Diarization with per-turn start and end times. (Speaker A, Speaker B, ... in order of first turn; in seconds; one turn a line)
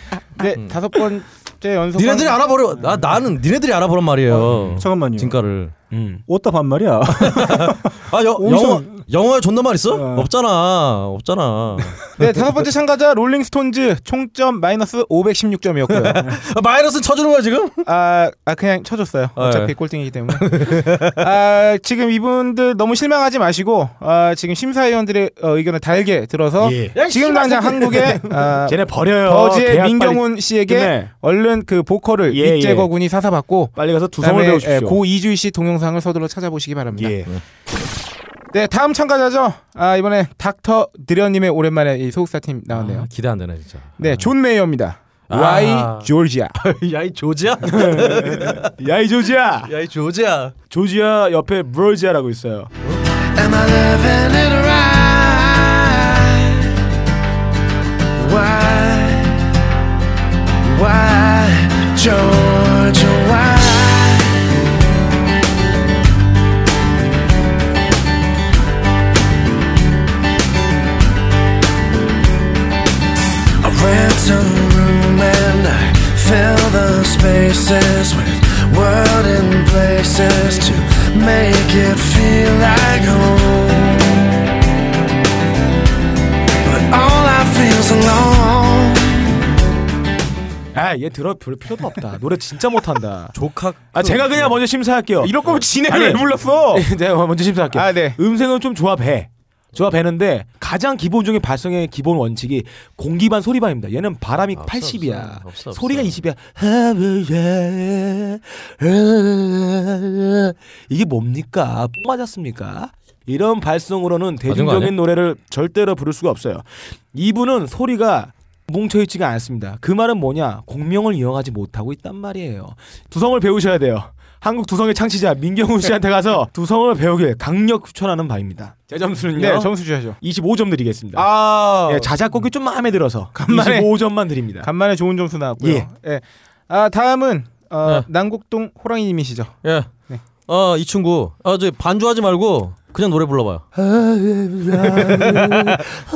Speaker A: 0.4-2.4
Speaker B: 0.5-0.8
Speaker B: 1.9-5.7
Speaker C: 4.3-5.3
Speaker D: 5.9-6.2
Speaker C: 6.3-9.0
Speaker B: 7.3-12.2
Speaker C: 9.9-10.3
Speaker A: 12.2-16.2
Speaker B: 15.9-17.9
Speaker A: 17.8-37.2
Speaker B: 19.4-19.7
Speaker B: 20.3-21.2
Speaker D: 26.6-27.1
Speaker B: 26.9-28.2
Speaker D: 28.6-31.1
Speaker D: 32.3-32.9
Speaker D: 33.7-35.0
Speaker D: 36.9-37.3
Speaker A: 38.5-43.1
Speaker B: 42.7-44.3
Speaker A: 44.0-46.5
Speaker B: 45.3-48.7
Speaker D: 47.7-49.7
Speaker B: 49.6-50.5
Speaker D: 50.7-52.7
Speaker E: 53.3-56.7
Speaker E: 58.2-59.4
Speaker E: 60.6-64.4
Speaker E: 73.6-84.2
Speaker E: 86.6-89.3
Speaker D: 90.7-93.3
Speaker B: 93.3-94.6
Speaker D: 93.9-131.3
Speaker A: 95.2-96.9
Speaker A: 97.7-98.2
Speaker B: 104.5-106.2
Speaker B: 114.5-115.0
Speaker A: 129.3-130.2
Speaker A: 131.1-132.1
Speaker D: 131.8-134.7
Speaker A: 133.3-134.1
Speaker A: 134.6-140.2
Speaker D: 135.6-135.9
Speaker B: 139.6-139.9
Speaker B: 140.4-143.7
Speaker D: 144.2-145.8
Speaker B: 144.8-145.8